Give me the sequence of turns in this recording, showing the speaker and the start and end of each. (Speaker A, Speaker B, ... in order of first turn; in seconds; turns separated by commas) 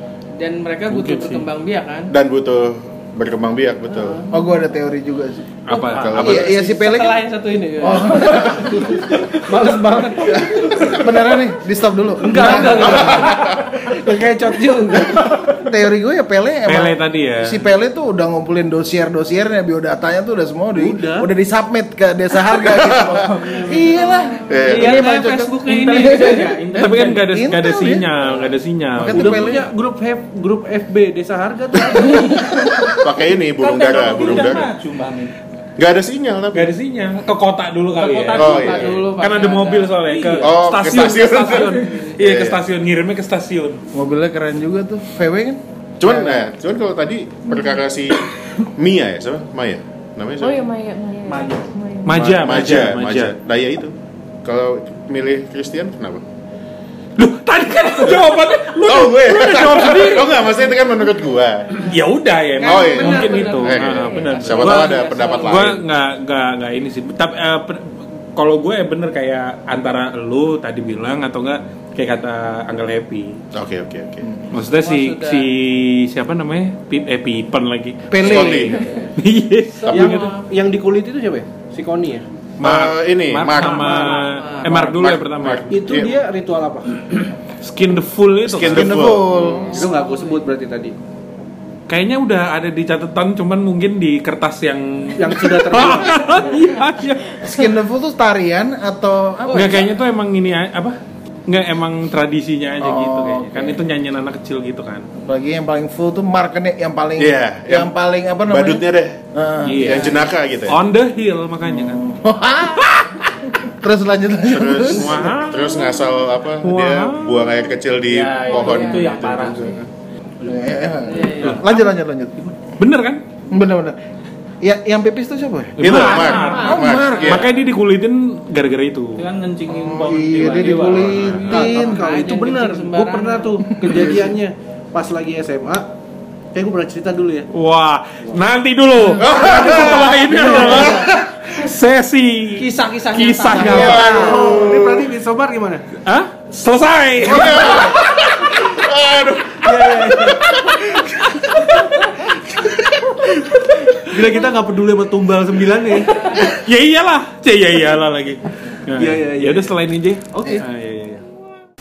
Speaker A: 0.4-2.1, Speaker B: 0.9-1.4, Speaker C: 2.1-4.2, Speaker A: 3.9-4.6, Speaker D: 4.3-5.5, Speaker B: 5.7-6.3, Speaker A: 5.7-9.6, Speaker C: 5.8-6.6, Speaker D: 6.2-7.2, Speaker D: 7.8-8.8, Speaker E: 8.4-10.4, Speaker A: 10.2-10.8, Speaker D: 10.3-13.3, Speaker E: 12.2-15.6, Speaker A: 12.4-12.6, Speaker C: 12.8-13.7, Speaker D: 15.4-25.5, Speaker B: 16.7-17.6, Speaker E: 20.8-21.3, Speaker C: 22.7-23.2, Speaker F: 23.0-23.9, Speaker C: 24.5-25.1, Speaker A: 24.6-26.8, Speaker F: 25.6-27.3, Speaker B: 26.8-29.5, Speaker D: 27.3-28.3, Speaker D: 28.9-29.7, Speaker E: 29.1-32.5, Speaker C: 32.9-34.7, Speaker F: 33.6-35.3, Speaker C: 35.8-36.7, Speaker B: 36.5-43.8, Speaker F: 38.0-38.9, Speaker A: 38.1-40.4, Speaker C: 38.4-39.0, Speaker F: 40.1-40.6, Speaker C: 40.4-42.6, Speaker D: 43.9-46.5, Speaker C: 46.0-50.7, Speaker G: 47.5-47.8, Speaker G: 50.4-52.2, Speaker F: 51.3-51.7, Speaker B: 52.0-53.3, Speaker C: 52.1-56.2, Speaker B: 57.2-60.5, Speaker C: 58.8-61.9, Speaker B: 61.8-73.3, Speaker A: 62.6-65.7, Speaker C: 62.6-65.8, Speaker C: 73.5-74.4, Speaker B: 74.5-80.3, Speaker A: 74.7-75.5, Speaker D: 78.1-78.8, Speaker C: 78.2-78.8, Speaker A: 79.8-80.5, Speaker E: 79.9-82.2, Speaker B: 82.6-85.7, Speaker C: 82.6-86.2, Speaker A: 83.8-84.8, Speaker E: 85.7-87.0, Speaker B: 87.6-89.1, Speaker C: 88.4-89.8, Speaker D: 88.6-89.9, Speaker E: 89.7-90.9, Speaker A: 89.9-90.5, Speaker B: 91.9-97.8, Speaker E: 95.2-96.3, Speaker D: 97.4-99.9, Speaker B: 99.5-105.0, Speaker D: 102.8-103.8, Speaker D: 105.2-110.1, Speaker C: 107.2-107.9, Speaker C: 108.5-109.2, Speaker B: 109.7-112.2, Speaker C: 109.7-110.8, Speaker D: 111.7-112.9, Speaker D: 113.7-115.2, Speaker C: 114.5-119.8, Speaker B: 114.8-116.0, Speaker B: 116.6-117.5, Speaker F: 118.1-119.9, Speaker G: 118.5-119.1, Speaker D: 120.4-122.3, Speaker F: 120.5-120.8, Speaker A: 121.1-121.7, Speaker B: 121.4-121.8, Speaker B: 122.8-123.2, Speaker D: 123.5-124.0, Speaker D: 124.6-125.9, Speaker B: 125.8-129.2, Speaker C: 125.8-127.5, Speaker A: 126.2-127.3, Speaker F: 126.4-126.8, Speaker D: 126.7-127.1, Speaker F: 129.2-131.4, Speaker D: 129.7-132.1, Speaker B: 130.5-131.4, Speaker A: 131.4-133.7, Speaker E: 131.4-135.9, Speaker D: 133.8-134.3, Speaker E: 136.5-137.5, Speaker B: 137.5-144.2, Speaker C: 139.2-141.3, Speaker A: 142.6-144.2, Speaker E: 143.6-145.8, Speaker C: 143.6-145.1, Speaker B: 146.0-148.7, Speaker C: 147.2-151.2, Speaker E: 149.6-150.4, Speaker B: 150.2-151.6, Speaker E: 154.0-156.2, Speaker B: 156.3-161.2, Speaker E: 159.0-159.7, Speaker E: 160.3-160.6